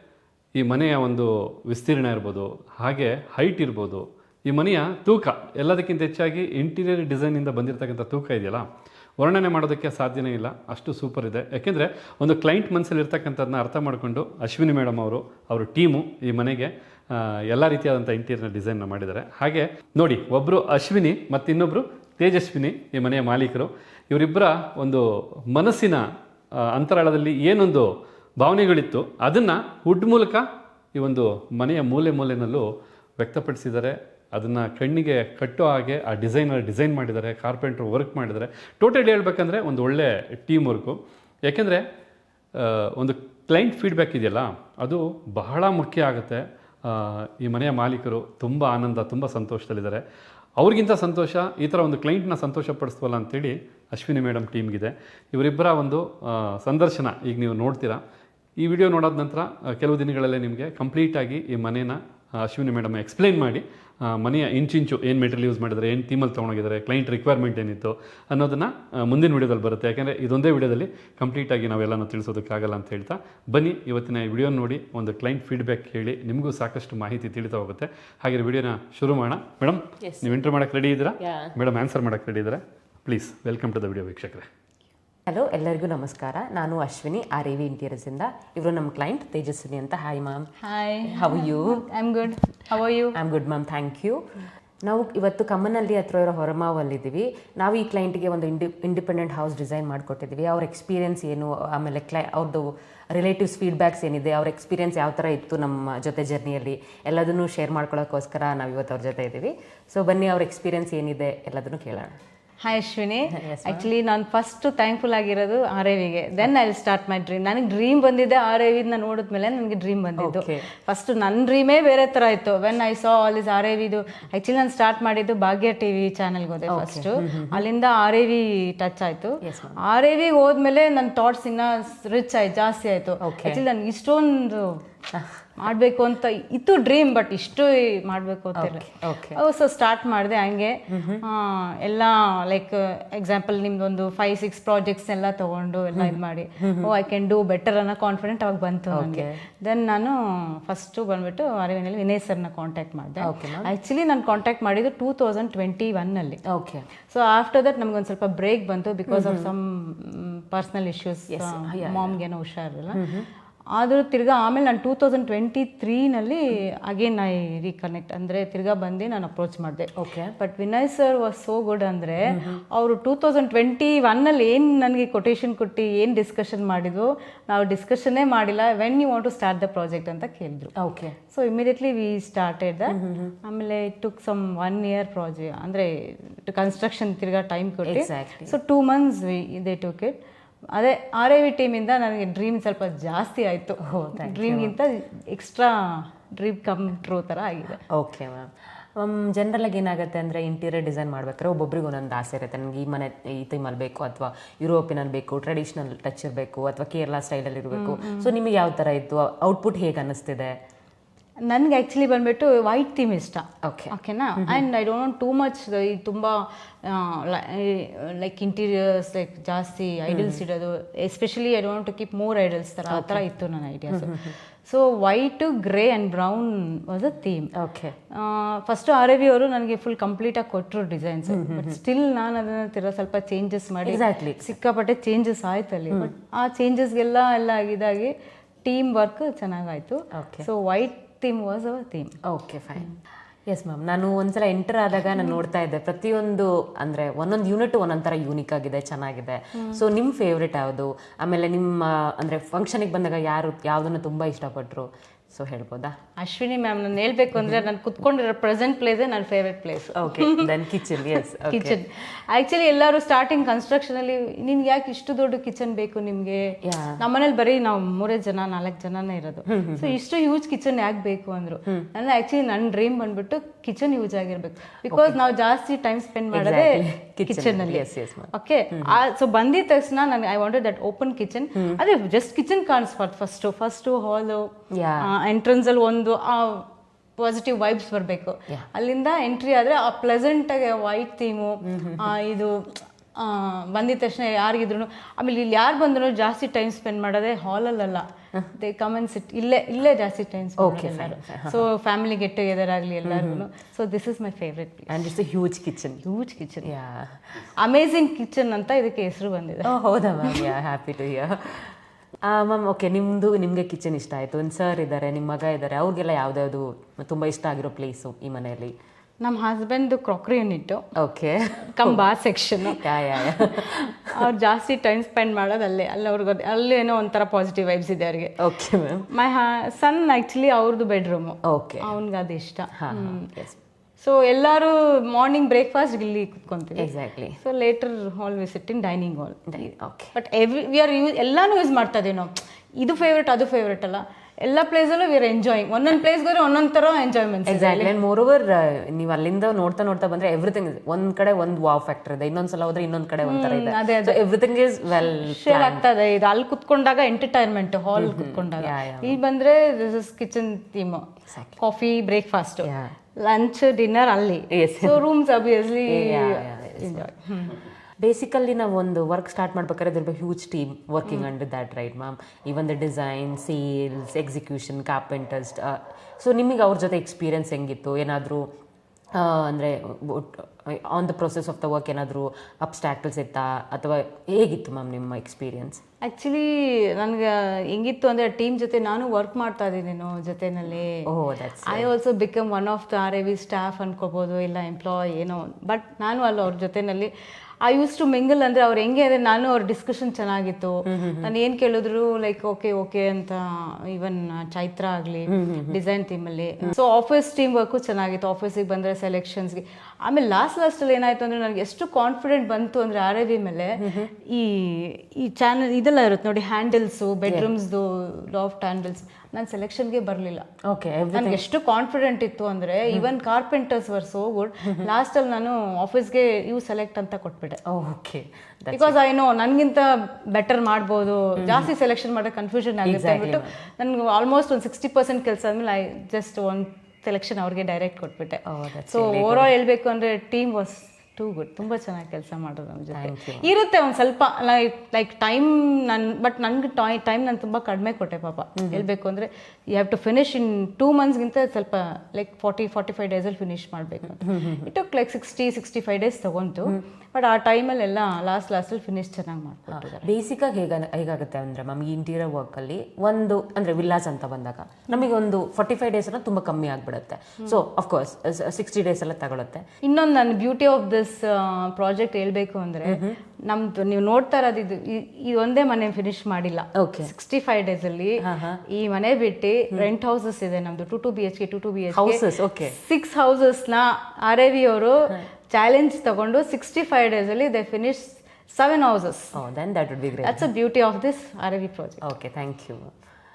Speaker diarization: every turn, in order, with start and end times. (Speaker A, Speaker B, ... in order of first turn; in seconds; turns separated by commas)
Speaker A: 0.6-8.7, Speaker A: 9.2-26.0, Speaker A: 26.7-27.9, Speaker A: 28.4-30.4, Speaker A: 30.9-32.6, Speaker A: 33.2-41.8, Speaker A: 42.5-50.0, Speaker A: 50.6-58.0, Speaker A: 58.6-84.4, Speaker B: 80.0-80.3, Speaker B: 81.2-81.5, Speaker B: 85.3-90.5, Speaker C: 90.6-93.2, Speaker B: 91.1-91.8, Speaker B: 93.1-94.2, Speaker B: 94.8-112.2, Speaker C: 112.6-134.8, Speaker B: 113.3-113.9, Speaker B: 120.2-120.7, Speaker B: 126.7-127.6, Speaker B: 129.4-129.8, Speaker B: 133.2-133.6, Speaker B: 135.1-135.5, Speaker C: 135.6-156.4, Speaker B: 138.6-139.4, Speaker B: 140.9-141.2, Speaker B: 145.9-146.9, Speaker B: 148.9-149.4, Speaker B: 153.2-153.7, Speaker B: 156.5-156.8, Speaker C: 157.1-163.0, Speaker B: 159.1-159.5, Speaker B: 161.3-162.2, Speaker B: 162.9-163.3, Speaker C: 163.7-180.7, Speaker B: 170.0-170.3, Speaker B: 172.3-172.6, Speaker B: 180.8-181.2, Speaker C: 181.3-190.1, Speaker B: 182.9-183.3, Speaker B: 187.9-188.5, Speaker C: 190.7-197.8, Speaker B: 193.8-194.7, Speaker B: 197.9-210.5, Speaker C: 207.7-208.3, Speaker C: 211.5-227.5, Speaker B: 213.6-214.6, Speaker B: 220.1-220.4, Speaker B: 222.9-223.2, Speaker B: 223.9-224.3, Speaker B: 227.6-227.9, Speaker C: 228.1-238.1, Speaker B: 231.3-231.8, Speaker B: 233.8-234.5, Speaker C: 238.6-242.2, Speaker B: 240.1-240.5, Speaker B: 242.3-242.9, Speaker B: 243.5-255.9, Speaker C: 249.6-249.8, Speaker C: 256.2-284.5, Speaker B: 259.9-261.8, Speaker B: 266.6-267.0, Speaker B: 269.5-269.9, Speaker B: 274.9-275.2, Speaker B: 276.3-279.0, Speaker B: 281.5-281.8, Speaker B: 284.7-285.1, Speaker C: 285.0-305.1, Speaker B: 291.6-292.1, Speaker B: 300.6-301.6, Speaker B: 303.0-303.4, Speaker B: 304.9-306.0, Speaker C: 306.0-306.7, Speaker B: 306.6-307.3, Speaker C: 307.4-310.5, Speaker B: 309.6-318.7, Speaker C: 319.2-320.8, Speaker B: 321.0-322.0, Speaker C: 321.7-328.4, Speaker B: 322.6-324.2, Speaker B: 328.4-329.1, Speaker C: 329.1-333.3, Speaker B: 331.5-331.9, Speaker B: 332.7-333.6, Speaker C: 334.0-347.9, Speaker B: 336.8-337.4, Speaker B: 339.5-340.1, Speaker B: 347.5-355.8, Speaker C: 353.2-354.2, Speaker C: 354.9-367.6, Speaker B: 357.9-359.2, Speaker B: 361.3-361.6, Speaker B: 362.6-362.9, Speaker B: 364.5-365.0, Speaker B: 365.9-367.1, Speaker B: 368.0-378.5, Speaker B: 379.1-385.8, Speaker C: 386.0-391.1, Speaker B: 391.1-391.9, Speaker C: 391.6-397.1, Speaker C: 397.6-420.4, Speaker B: 400.9-401.3, Speaker B: 405.3-405.7, Speaker B: 413.8-414.1, Speaker B: 420.7-421.4, Speaker C: 421.1-427.6, Speaker B: 427.7-428.9, Speaker C: 428.7-460.1, Speaker B: 431.4-431.7, Speaker B: 432.8-433.6, Speaker B: 438.4-439.5, Speaker B: 442.9-443.5, Speaker B: 448.6-448.8, Speaker B: 454.2-454.6, Speaker B: 459.7-469.6, Speaker C: 469.8-489.4, Speaker B: 472.8-473.2, Speaker B: 476.8-477.1, Speaker B: 478.2-478.6, Speaker B: 481.9-482.8, Speaker B: 489.3-490.5, Speaker C: 490.2-492.0, Speaker B: 492.0-492.9